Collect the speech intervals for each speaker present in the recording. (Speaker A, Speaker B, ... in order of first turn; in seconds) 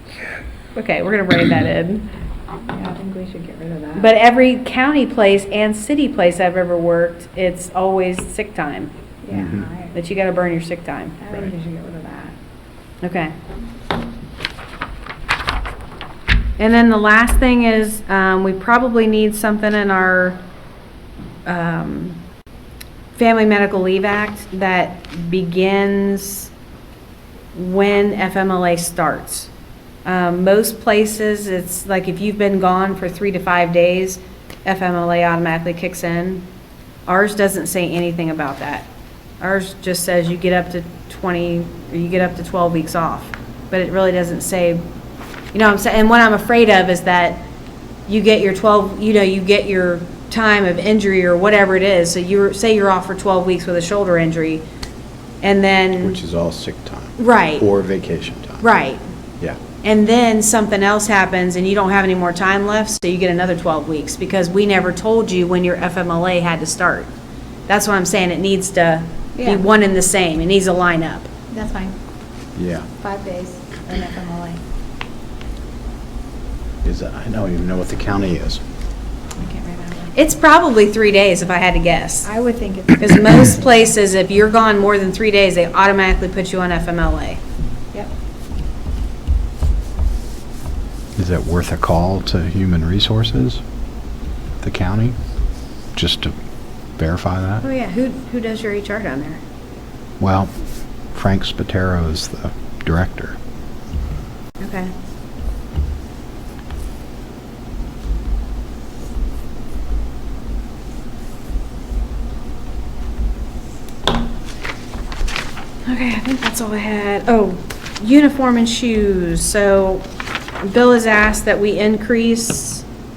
Speaker A: 0.8-2.1, 4.0-8.9, 9.9-11.2, 13.0-13.3, 16.6-20.4, 21.5-22.2, 23.1-26.5, 27.6-29.5, 30.1-36.5, 37.1-38.9, 39.4-44.8, 45.5-47.5, 48.1-54.6, 55.4-56.2, 57.2-57.7, 58.6-59.0, 59.8-67.1, 67.7-71.3, 80.2-82.3, 83.0-87.4, 97.6-99.4, 104.6-104.9, 115.8-120.1, 120.6-122.9
Speaker B: 2.7-4.1, 9.2-9.9, 11.2-12.3, 69.4-69.6, 71.5-72.0, 73.0-74.6, 79.4-80.1, 82.2-83.7
Speaker C: 56.0-58.6, 72.6-72.9, 76.8-78.6, 91.2-93.6, 94.6-95.2, 96.0-96.3, 97.0-97.6, 100.2-100.5, 101.1-103.4